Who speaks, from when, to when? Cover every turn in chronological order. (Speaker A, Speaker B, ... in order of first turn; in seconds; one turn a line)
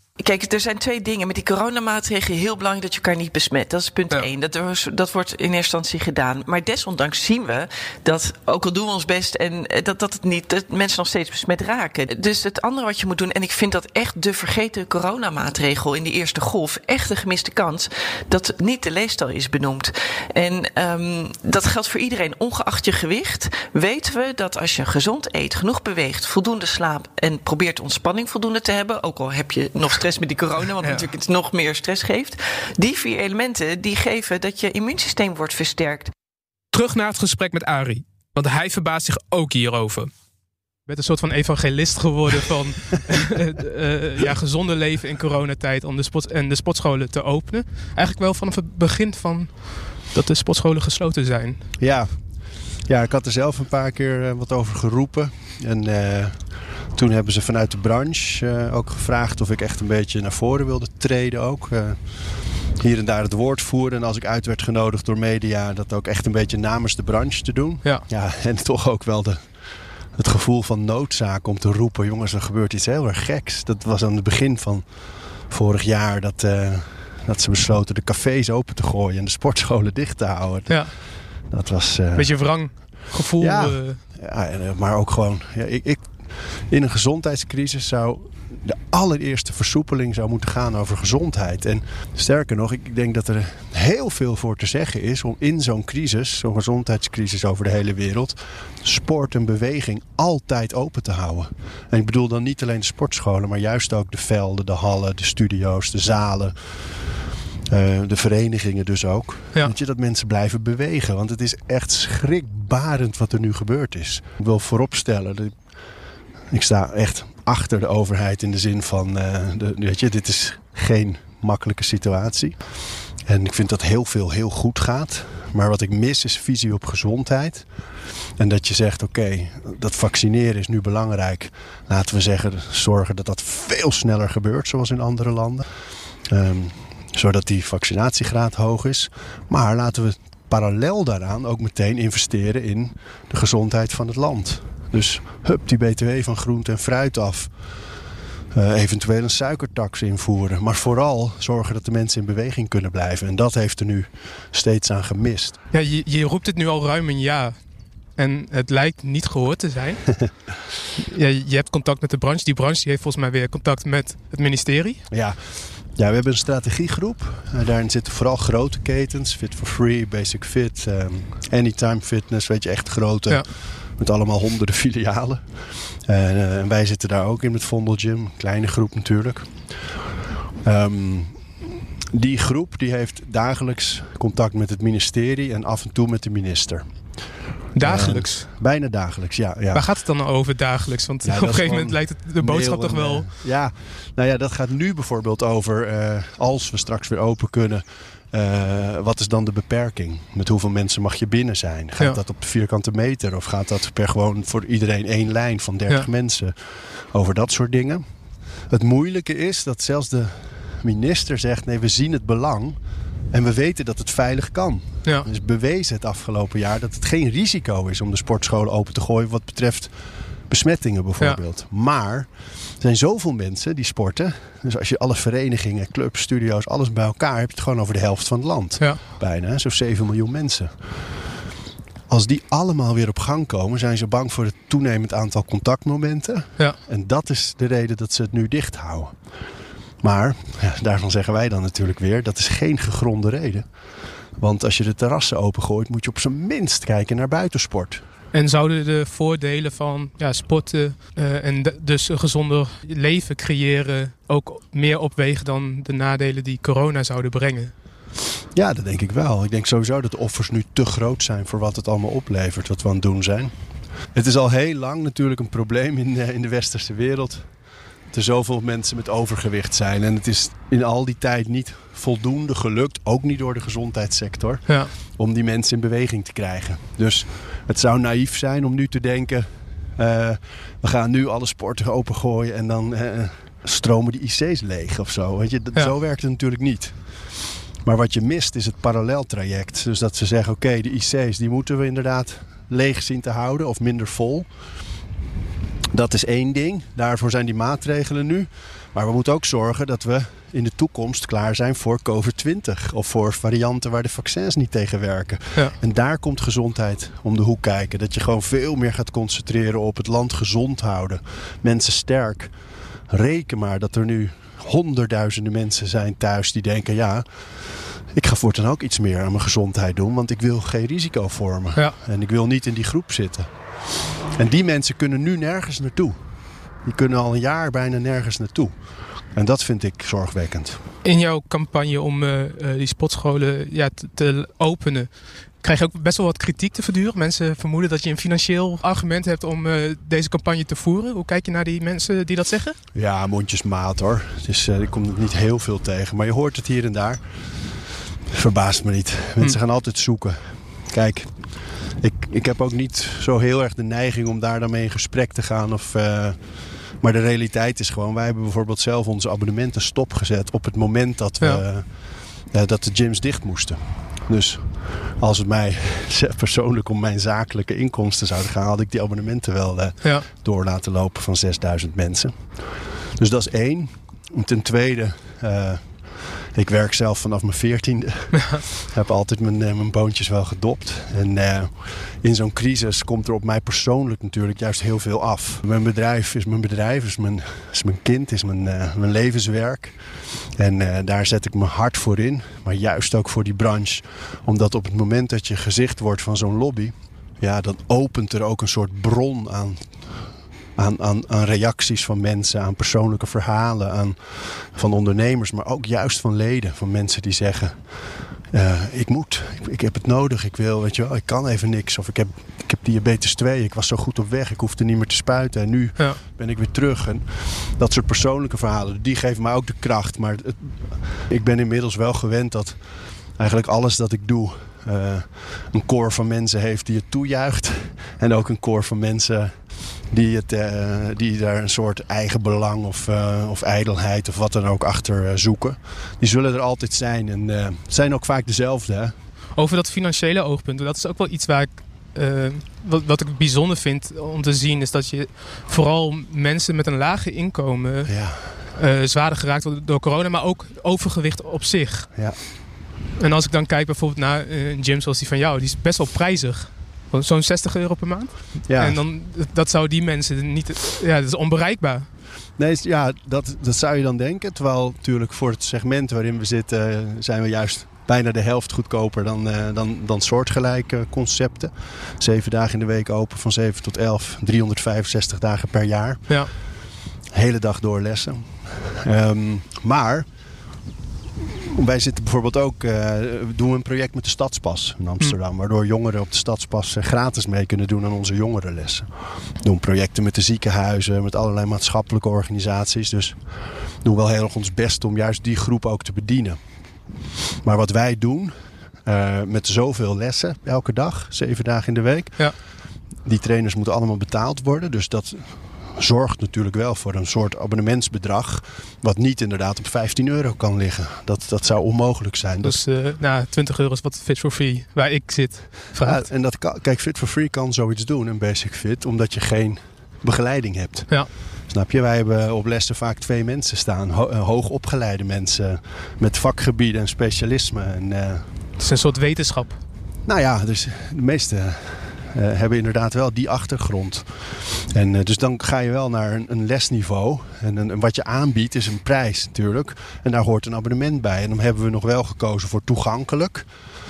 Speaker A: 0.2-36.1
Speaker B: 36.7-40.1
Speaker B: 40.9-51.6
Speaker C: 51.8-52.1
Speaker C: 52.9-62.0
Speaker C: 62.8-69.5
Speaker C: 70.2-74.9
Speaker C: 75.5-82.4
Speaker B: 82.2-84.0
Speaker C: 83.4-106.5
Speaker C: 107.7-115.6
Speaker C: 116.5-122.6
Speaker C: 123.2-127.7
Speaker C: 128.4-135.7
Speaker C: 136.3-147.5
Speaker C: 148.5-155.6
Speaker B: 155.7-157.6
Speaker B: 158.2-160.1
Speaker B: 161.0-165.0
Speaker C: 165.1-179.7
Speaker C: 180.6-186.9
Speaker B: 187.7-188.5
Speaker C: 187.8-189.9
Speaker B: 189.7-193.3
Speaker C: 191.2-208.0
Speaker C: 208.7-212.8
Speaker C: 213.3-219.9
Speaker C: 220.5-230.7
Speaker C: 232.1-239.2
Speaker C: 240.0-243.7
Speaker C: 244.4-248.0
Speaker B: 248.3-257.7
Speaker C: 258.5-263.5
Speaker C: 264.1-267.5
Speaker C: 268.1-287.2
Speaker B: 274.7-274.9
Speaker C: 287.8-294.5
Speaker C: 295.9-312.5
Speaker C: 313.1-323.6
Speaker C: 324.3-326.2
Speaker C: 326.8-328.8
Speaker C: 329.3-330.8
Speaker B: 331.0-342.8
Speaker C: 342.9-347.3
Speaker C: 348.3-372.6
Speaker C: 373.2-390.0
Speaker B: 378.4-378.6
Speaker C: 390.6-400.2
Speaker C: 400.8-422.8
Speaker C: 423.4-439.1
Speaker B: 439.6-452.1
Speaker C: 448.1-448.6
Speaker B: 453.2-462.1
Speaker C: 458.7-459.0
Speaker C: 462.6-476.4
Speaker C: 477.3-480.3
Speaker C: 481.4-496.6
Speaker C: 497.6-502.5
Speaker C: 503.2-512.8
Speaker B: 512.6-516.3
Speaker C: 516.0-528.5
Speaker B: 528.8-529.8
Speaker C: 530.2-543.7